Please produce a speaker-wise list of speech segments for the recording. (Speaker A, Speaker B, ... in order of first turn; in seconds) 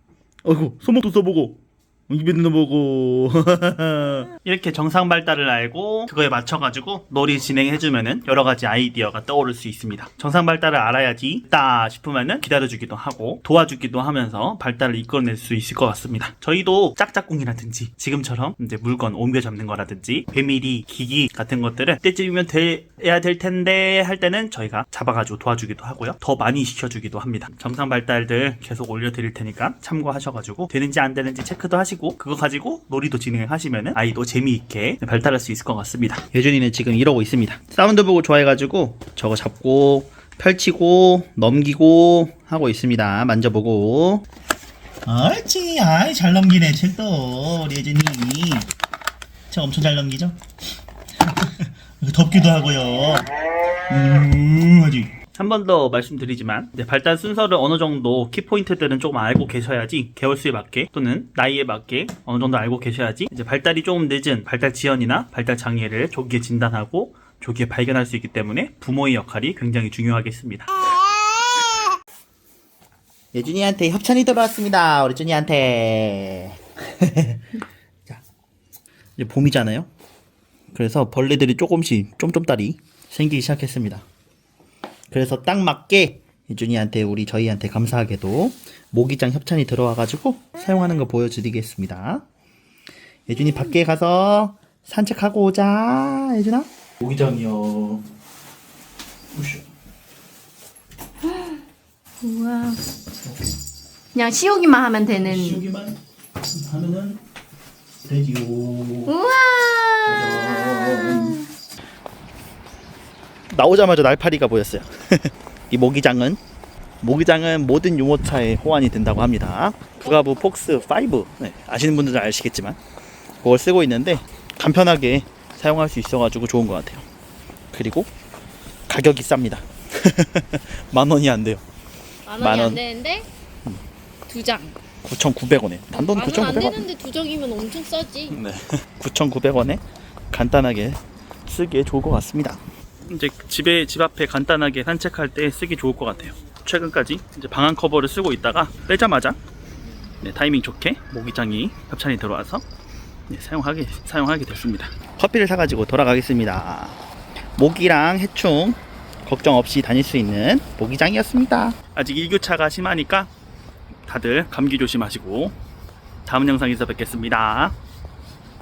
Speaker A: 0.4-44.2, 45.0-48.7, 49.5-50.4, 51.2-53.3, 53.9-70.7, 73.3-77.5, 79.2-79.9, 80.7-84.0, 85.1-92.2, 93.3-98.0, 99.3-99.6, 105.2-106.0, 106.5-107.2, 108.0-109.1, 110.1-111.4, 113.5-116.4, 117.0-122.8, 123.4-127.1, 127.7-128.1, 128.9-131.6, 132.4-132.8, 135.0-136.8, 138.3-149.4, 150.2-152.6, 153.3-157.0, 157.6-163.3, 164.1-165.6, 166.2-167.8
Speaker B: 101.3-101.6, 102.2-102.8, 104.1-105.6, 109.1-111.4, 132.2-133.3, 134.3-134.8, 135.9-138.4